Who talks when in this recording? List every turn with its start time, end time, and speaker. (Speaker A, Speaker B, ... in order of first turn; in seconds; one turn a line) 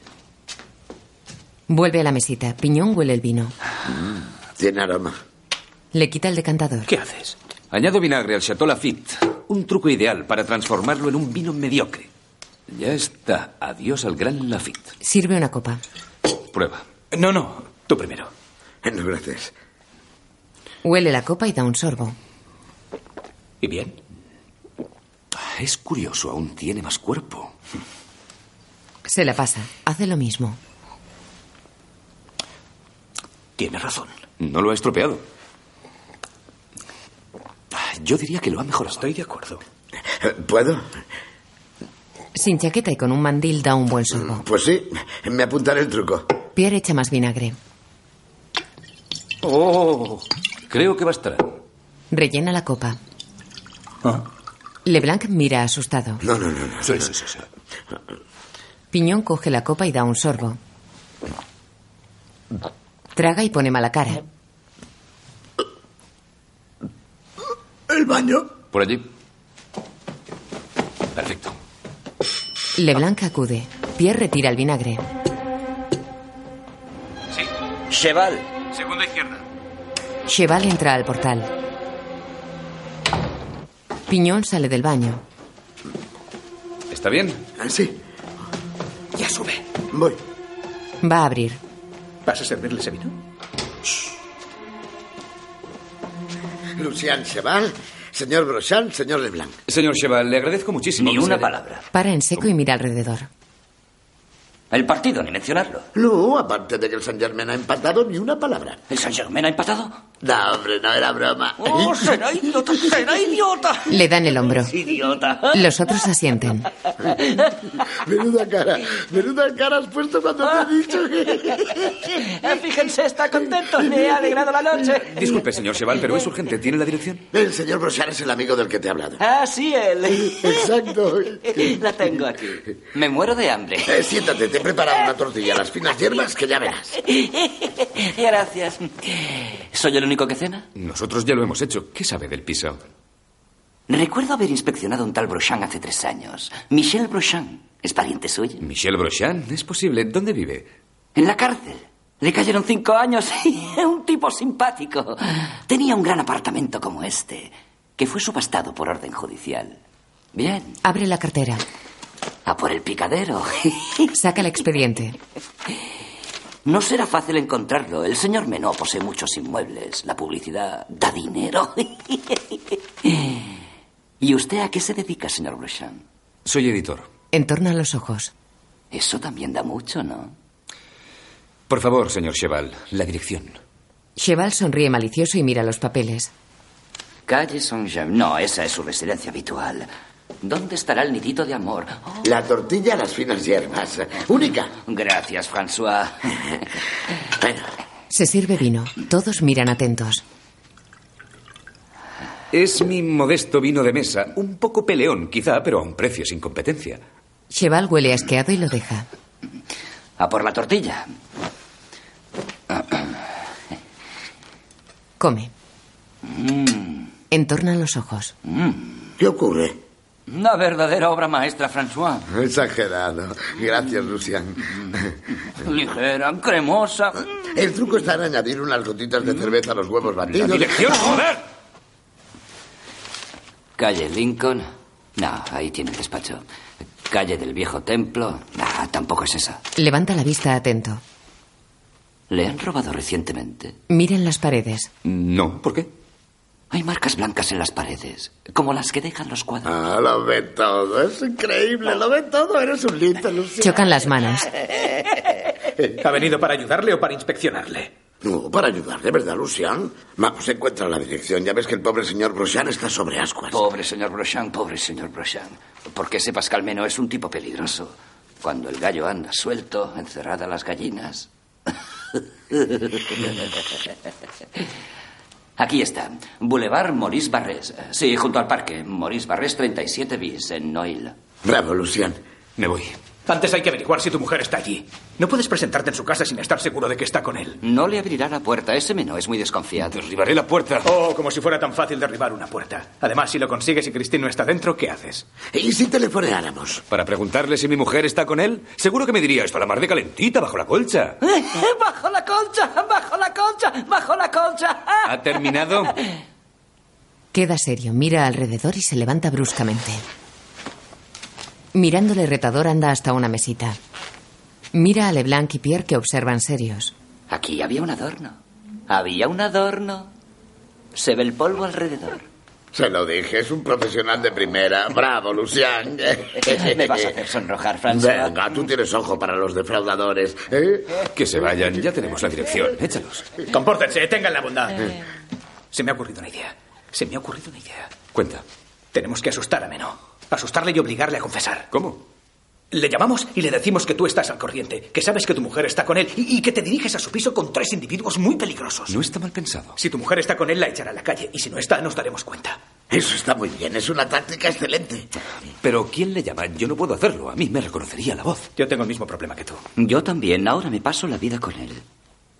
Speaker A: 1.7-3.5
Speaker B: 4.6-5.2
Speaker A: 5.9-6.9
Speaker C: 6.9-7.3
Speaker D: 7.7-12.1
Speaker D: 12.7-14.9
Speaker A: 15.0-15.8
Speaker D: 16.5-16.8
Speaker C: 17.1-18.3
Speaker B: 18.8-19.5
Speaker A: 20.8-22.1
Speaker C: 23.6-24.0
Speaker D: 25.4-27.5
Speaker A: 29.1-30.6
Speaker C: 33.6-34.2
Speaker D: 34.4-35.2
Speaker D: 37.7-39.0
Speaker C: 39.0-39.6
Speaker B: 40.2-40.9
Speaker A: 42.3-44.4
Speaker B: 44.1-46.3
Speaker A: 46.5-47.6
Speaker D: 49.4-51.5
Speaker A: 52.1-53.0
Speaker A: 54.8-56.2
Speaker B: 56.2-57.0
Speaker D: 56.9-57.2
Speaker A: 58.9-60.6
Speaker A: 63.1-64.2
Speaker B: 67.9-68.4
Speaker D: 68.7-69.0
Speaker D: 71.2-71.5
Speaker A: 72.8-75.0
Speaker E: 77.9-78.6
Speaker A: 80.3-81.5
Speaker A: 84.1-85.2
Speaker D: 86.9-87.4
Speaker B: 87.6-88.0
Speaker C: 89.1-89.6
Speaker B: 89.9-90.2
Speaker A: 91.0-91.6
Speaker C: 92.2-93.1
Speaker B: 96.8-99.6
Speaker D: 99.7-101.5
Speaker E: 101.0-101.8
Speaker A: 101.9-103.3
Speaker E: 104.7-105.9
Speaker B: 105.9-108.8
Speaker E: 108.9-110.0
Speaker B: 110.2-112.1
Speaker E: 111.6-113.9
Speaker A: 113.9-114.8
Speaker E: 114.7-115.6
Speaker A: 115.5-116.7
Speaker B: 117.9-122.1
Speaker E: 122.2-125.3
Speaker D: 124.9-127.2
Speaker B: 127.3-129.2
Speaker E: 129.2-130.7
Speaker B: 130.2-131.8
Speaker E: 131.4-133.9
Speaker B: 133.8-136.9
Speaker E: 137.0-140.7
Speaker D: 140.8-142.8
Speaker E: 143.9-148.6
Speaker D: 148.6-150.7
Speaker E: 151.1-159.8
Speaker E: 160.3-160.8
Speaker A: 160.8-161.6
Speaker E: 162.4-164.1
Speaker A: 164.1-165.2
Speaker E: 166.6-173.5
Speaker E: 174.2-176.0
Speaker D: 176.4-177.1
Speaker A: 177.3-178.3
Speaker E: 178.9-180.3
Speaker D: 181.7-183.6
Speaker A: 184.2-186.3
Speaker E: 187.3-189.9
Speaker E: 190.4-192.2
Speaker B: 192.2-194.7
Speaker E: 194.8-196.4
Speaker B: 197.4-197.6
Speaker A: 198.1-200.2
Speaker D: 202.5-207.0
Speaker A: 207.5-209.1
Speaker E: 210.2-211.1
Speaker E: 212.7-213.2
Speaker A: 215.2-215.5
Speaker E: 216.2-217.1
Speaker A: 217.3-218.3
Speaker E: 218.4-219.1
Speaker B: 219.2-219.8
Speaker E: 220.3-222.3
Speaker B: 222.3-225.2
Speaker E: 225.6-227.2
Speaker B: 227.5-231.1
Speaker D: 230.3-231.4
Speaker E: 233.8-236.4
Speaker E: 237.1-239.6
Speaker A: 239.8-241.0
Speaker E: 242.3-243.8
Speaker A: 243.9-244.9
Speaker D: 245.0-245.9
Speaker E: 246.7-249.7
Speaker B: 249.6-253.8
Speaker A: 253.6-254.5
Speaker C: 256.0-257.9
Speaker B: 258.2-263.6
Speaker E: 263.5-273.3
Speaker E: 275.6-281.1
Speaker B: 281.4-282.2
Speaker D: 282.6-283.0
Speaker C: 283.3-287.6
Speaker E: 287.6-290.0
Speaker D: 289.9-290.9
Speaker C: 290.8-295.2
Speaker B: 295.5-296.8
Speaker D: 296.9-301.2
Speaker E: 301.2-305.9
Speaker D: 305.0-305.9
Speaker A: 307.3-310.0
Speaker A: 311.7-313.8
Speaker A: 314.7-316.9
Speaker E: 317.3-320.1
Speaker E: 320.9-322.2
Speaker B: 322.7-327.1
Speaker E: 326.4-328.3
Speaker B: 327.9-331.0
Speaker D: 331.1-333.3
Speaker C: 333.5-334.9
Speaker C: 335.7-337.9
Speaker D: 338.1-338.4
Speaker C: 338.9-341.7
Speaker D: 341.7-342.0
Speaker C: 342.7-348.9
Speaker D: 348.9-349.8
Speaker C: 349.8-352.6
Speaker B: 352.9-355.1
Speaker D: 355.6-358.5
Speaker C: 358.6-359.6
Speaker E: 359.8-361.8